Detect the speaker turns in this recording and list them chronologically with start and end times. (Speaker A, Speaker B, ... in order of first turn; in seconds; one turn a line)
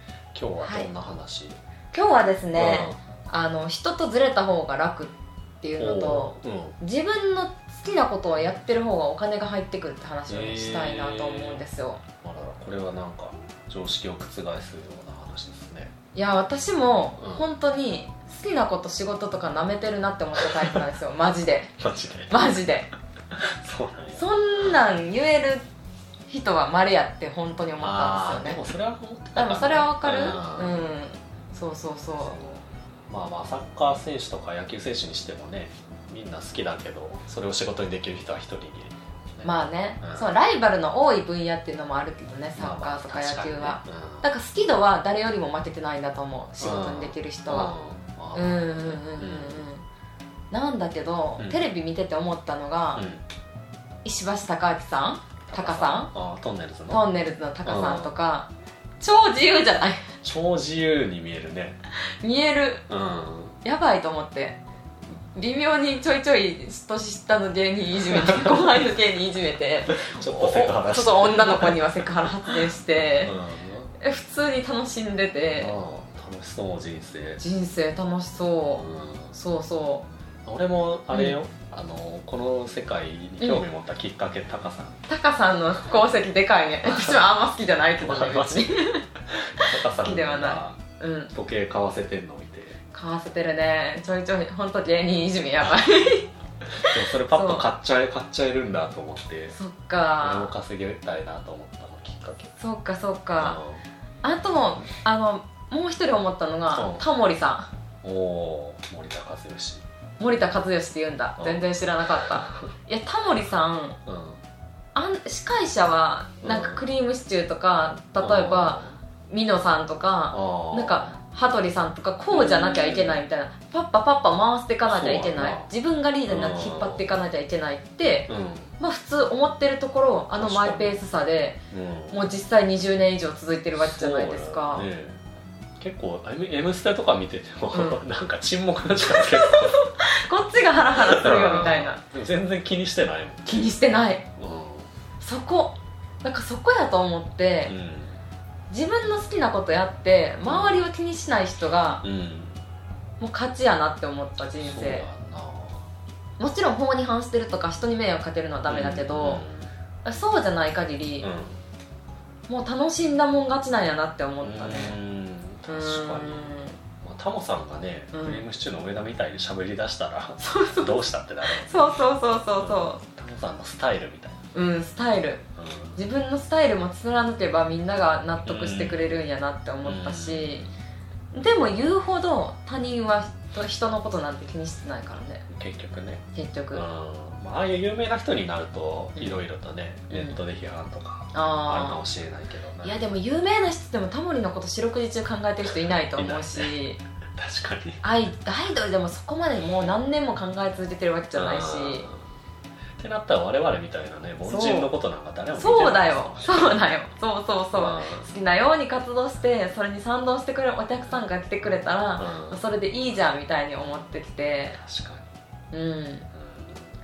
Speaker A: 0.3-1.6
Speaker B: 0.6-0.9
Speaker B: 1.9-12.0
Speaker A: 2.5-3.0
Speaker A: 5.8-6.8
Speaker A: 10.3-11.7
Speaker A: 12.2-15.9
Speaker B: 16.1-21.7
Speaker A: 17.2-17.5
Speaker A: 20.4-20.8
Speaker A: 21.8-22.6
Speaker B: 22.3-22.9
Speaker A: 23.4-24.7
Speaker B: 24.1-25.6
Speaker B: 26.3-28.6
Speaker A: 27.8-30.9
Speaker B: 29.4-32.4
Speaker A: 32.2-40.3
Speaker B: 39.4-47.8
Speaker A: 42.6-44.3
Speaker A: 46.6-49.7
Speaker B: 48.3-49.9
Speaker B: 50.5-53.1
Speaker A: 53.0-53.3
Speaker B: 54.0-56.1
Speaker A: 55.5-57.1
Speaker B: 56.9-60.1
Speaker A: 57.6-58.1
Speaker A: 60.2-61.8
Speaker B: 62.2-62.9
Speaker A: 62.9-63.6
Speaker B: 63.6-64.6
Speaker B: 65.3-73.4
Speaker A: 68.1-68.6
Speaker A: 69.9-73.9
Speaker B: 74.0-75.8
Speaker A: 75.5-77.4
Speaker B: 77.4-80.1
Speaker A: 78.7-79.3
Speaker A: 80.5-85.0
Speaker B: 81.1-81.4
Speaker B: 85.1-91.3
Speaker A: 86.8-87.3
Speaker A: 88.0-88.7
Speaker A: 89.5-90.8
Speaker A: 91.3-92.8
Speaker B: 92.9-97.7
Speaker A: 96.8-99.6
Speaker B: 99.5-100.5
Speaker A: 100.2-102.5
Speaker B: 102.6-103.6
Speaker A: 103.4-103.8
Speaker B: 104.2-107.7
Speaker A: 106.7-107.0
Speaker A: 108.0-109.8
Speaker B: 110.2-114.0
Speaker A: 111.4-111.6
Speaker A: 112.2-112.7
Speaker A: 114.1-114.4
Speaker B: 115.0-131.6
Speaker A: 116.4-116.8
Speaker A: 118.2-119.0
Speaker A: 120.3-121.2
Speaker A: 122.3-123.2
Speaker A: 124.8-125.7
Speaker A: 126.3-127.1
Speaker A: 128.3-128.8
Speaker A: 130.3-131.0
Speaker A: 131.7-132.2
Speaker B: 132.1-134.9
Speaker A: 133.8-135.2
Speaker A: 135.8-139.8
Speaker B: 137.7-138.0
Speaker B: 139.0-142.0
Speaker A: 140.9-143.8
Speaker B: 143.5-144.3
Speaker A: 144.4-144.9
Speaker B: 145.2-147.8
Speaker A: 147.7-148.2
Speaker B: 148.7-152.0
Speaker A: 150.4-150.9
Speaker A: 152.0-152.6
Speaker B: 153.2-155.1
Speaker A: 154.6-155.9
Speaker B: 156.4-159.4
Speaker A: 158.7-159.7
Speaker B: 160.0-161.3
Speaker A: 161.2-161.6
Speaker B: 162.5-165.0
Speaker A: 164.4-172.0
Speaker B: 165.7-166.8
Speaker B: 168.1-168.5
Speaker B: 170.4-173.0
Speaker A: 172.6-174.4
Speaker B: 174.5-175.4
Speaker A: 175.6-176.1
Speaker B: 176.0-180.7
Speaker A: 178.4-179.1
Speaker A: 179.8-180.6
Speaker B: 181.3-185.5
Speaker A: 185.5-193.0
Speaker B: 186.3-186.8
Speaker B: 189.2-189.4
Speaker B: 190.1-190.4
Speaker B: 191.3-192.1
Speaker B: 192.8-197.0
Speaker A: 196.2-196.7
Speaker A: 197.4-198.0
Speaker B: 198.0-202.1
Speaker A: 201.3-202.2
Speaker A: 203.0-206.7
Speaker B: 204.4-204.9
Speaker B: 205.6-214.8
Speaker A: 207.7-208.3
Speaker A: 212.2-212.6
Speaker A: 214.7-215.3
Speaker B: 215.7-216.3
Speaker A: 216.3-217.0